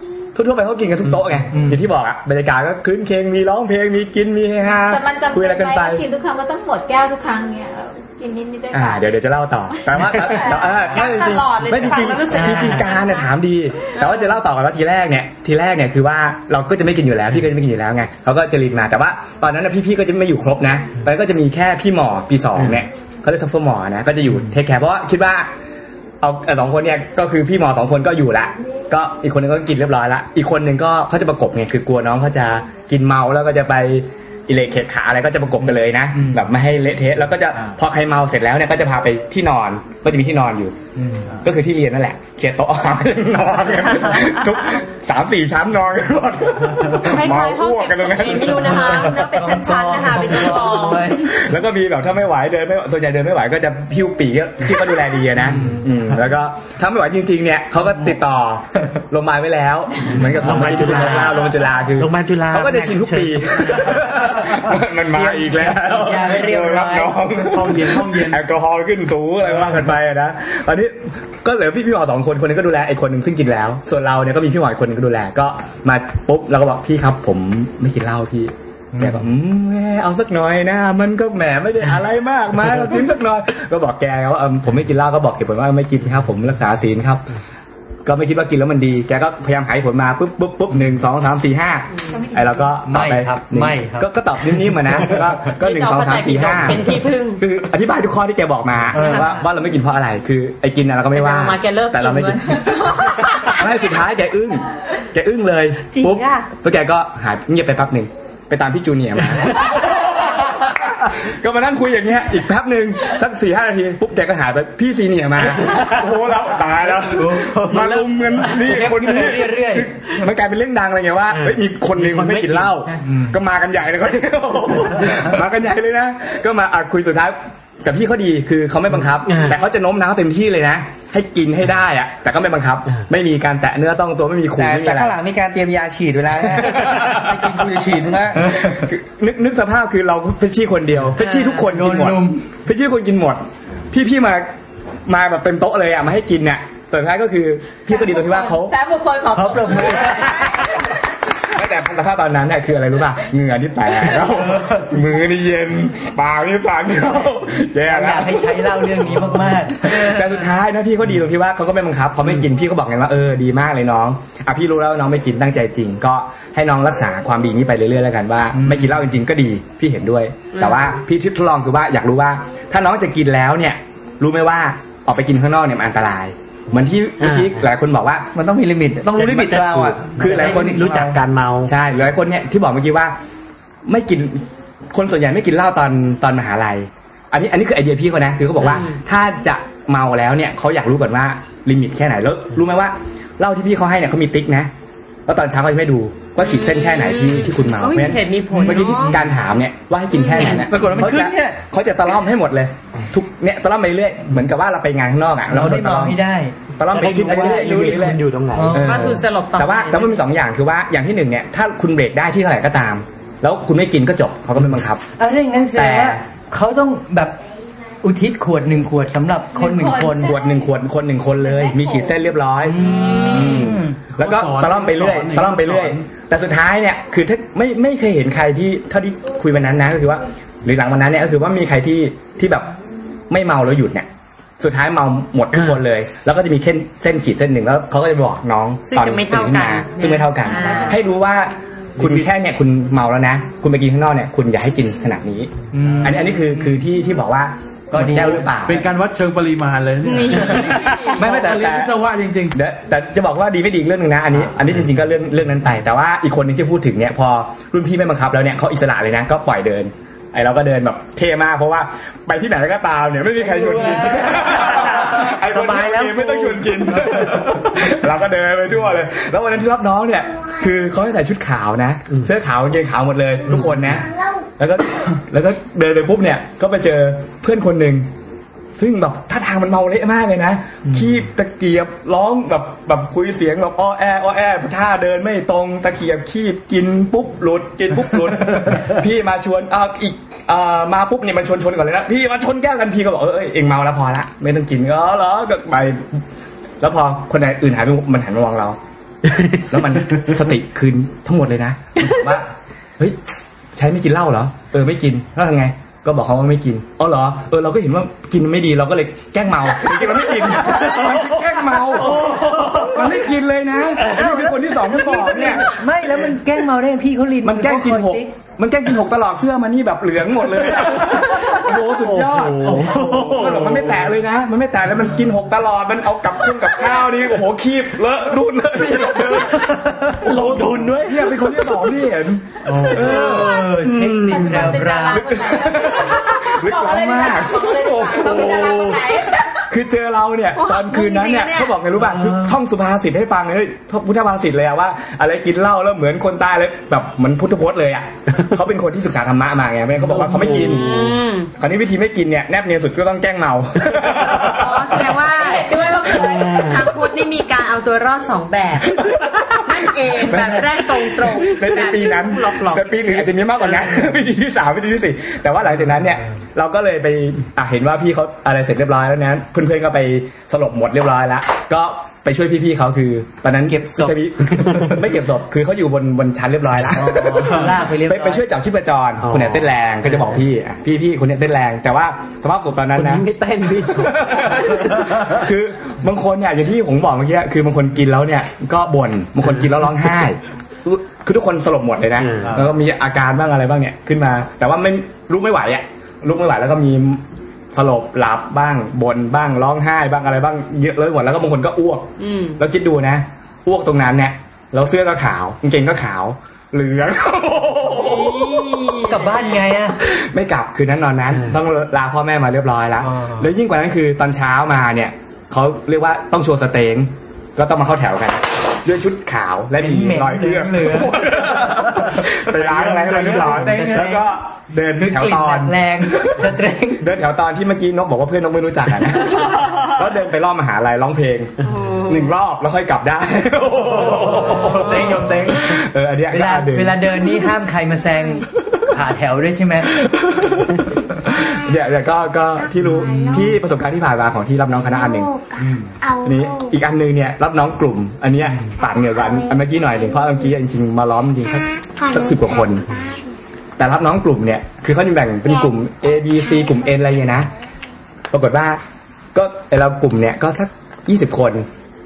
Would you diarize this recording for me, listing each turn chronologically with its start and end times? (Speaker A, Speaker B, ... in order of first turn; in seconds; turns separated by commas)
Speaker A: 0.3-6.0, Speaker B: 1.5-1.8, Speaker C: 4.8-9.1, Speaker A: 8.7-25.5, Speaker C: 9.7-11.7, Speaker D: 10.8-13.1, Speaker E: 12.4-12.7, Speaker E: 22.6-22.8, Speaker A: 26.2-40.8, Speaker B: 36.1-36.5, Speaker B: 41.0-41.3, Speaker A: 41.4-49.2, Speaker D: 47.0-51.2, Speaker B: 48.6-51.3, Speaker A: 51.1-87.3, Speaker E: 60.2-64.2, Speaker B: 65.1-67.1, Speaker F: 67.4-68.4, Speaker B: 78.9-79.2, Speaker A: 88.0-135.2, Speaker C: 92.1-92.7, Speaker B: 92.8-94.1, Speaker D: 95.4-97.4, Speaker B: 98.9-99.3, Speaker D: 98.9-99.4, Speaker D: 101.1-103.8, Speaker D: 105.9-106.5, Speaker B: 117.1-119.9, Speaker E: 121.3-123.0, Speaker B: 123.0-123.3, Speaker E: 129.2-129.6, Speaker G: 134.6-138.6, Speaker A: 136.6-137.2, Speaker A: 138.4-144.5, Speaker B: 141.2-142.4, Speaker A: 145.1-148.8, Speaker C: 147.9-150.7, Speaker B: 149.3-150.4, Speaker A: 151.5-159.2, Speaker B: 157.8-160.4, Speaker A: 159.8-178.3, Speaker B: 168.5-169.0, Speaker D: 170.5-170.8, Speaker E: 177.2-177.6, Speaker G: 178.3-181.2, Speaker E: 179.1-181.7, Speaker A: 180.2-180.9, Speaker A: 181.6-183.1, Speaker A: 183.8-194.7, Speaker D: 188.6-189.0, Speaker A: 195.3-206.2, Speaker D: 196.4-199.2, Speaker B: 198.5-199.2, Speaker D: 200.2-200.7, Speaker G: 200.3-201.6, Speaker B: 205.5-206.6, Speaker A: 206.8-215.1, Speaker E: 206.8-208.9, Speaker B: 207.2-207.9, Speaker B: 208.5-209.1, Speaker D: 208.8-210.2, Speaker B: 215.2-217.4, Speaker A: 215.7-216.2, Speaker B: 218.0-220.3, Speaker C: 219.6-220.6, Speaker A: 220.2-232.7, Speaker C: 221.4-222.2, Speaker B: 222.6-224.0, Speaker D: 222.8-223.2, Speaker F: 223.1-226.0, Speaker A: 233.3-234.1, Speaker A: 234.6-248.9, Speaker D: 238.9-241.0, Speaker F: 242.0-242.3, Speaker B: 245.7-246.8, Speaker F: 245.8-246.2, Speaker B: 247.9-248.5, Speaker F: 248.1-252.6, Speaker D: 250.0-251.2, Speaker A: 251.1-252.0, Speaker A: 252.5-278.1, Speaker B: 263.5-267.3, Speaker A: 278.8-296.2, Speaker A: 296.8-298.8, Speaker E: 299.3-299.6, Speaker A: 299.7-303.2, Speaker A: 303.7-315.7, Speaker E: 310.7-311.4, Speaker E: 311.9-313.1, Speaker B: 314.0-318.3, Speaker A: 317.4-333.6, Speaker E: 320.8-324.1, Speaker E: 329.1-331.9, Speaker B: 329.6-330.2, Speaker F: 332.6-333.4, Speaker B: 332.9-335.3, Speaker E: 333.2-334.9, Speaker C: 334.3-339.5, Speaker A: 335.1-338.9, Speaker E: 337.9-339.0, Speaker A: 339.6-355.2, Speaker D: 340.6-341.8, Speaker E: 342.1-342.4, Speaker E: 350.1-350.7, Speaker D: 350.4-351.5, Speaker D: 354.4-363.3, Speaker C: 355.2-356.8, Speaker E: 356.0-356.9, Speaker A: 359.0-359.3, Speaker A: 360.1-408.9, Speaker B: 373.7-374.1, Speaker E: 374.6-374.9, Speaker B: 376.9-378.4, Speaker E: 379.2-380.3, Speaker E: 382.9-385.4, Speaker E: 392.1-392.6, Speaker F: 392.4-392.7, Speaker D: 402.2-402.6, Speaker D: 407.9-409.5, Speaker B: 409.1-410.0, Speaker A: 410.0-431.5, Speaker B: 413.0-413.5, Speaker B: 419.8-421.3, Speaker B: 422.6-424.3, Speaker B: 425.0-427.1, Speaker D: 431.6-432.3, Speaker A: 432.0-437.1, Speaker F: 433.8-435.6, Speaker B: 436.3-440.0, Speaker A: 440.0-452.9, Speaker B: 442.9-443.4, Speaker A: 453.8-457.5, Speaker A: 458.3-458.8, Speaker A: 459.3-461.6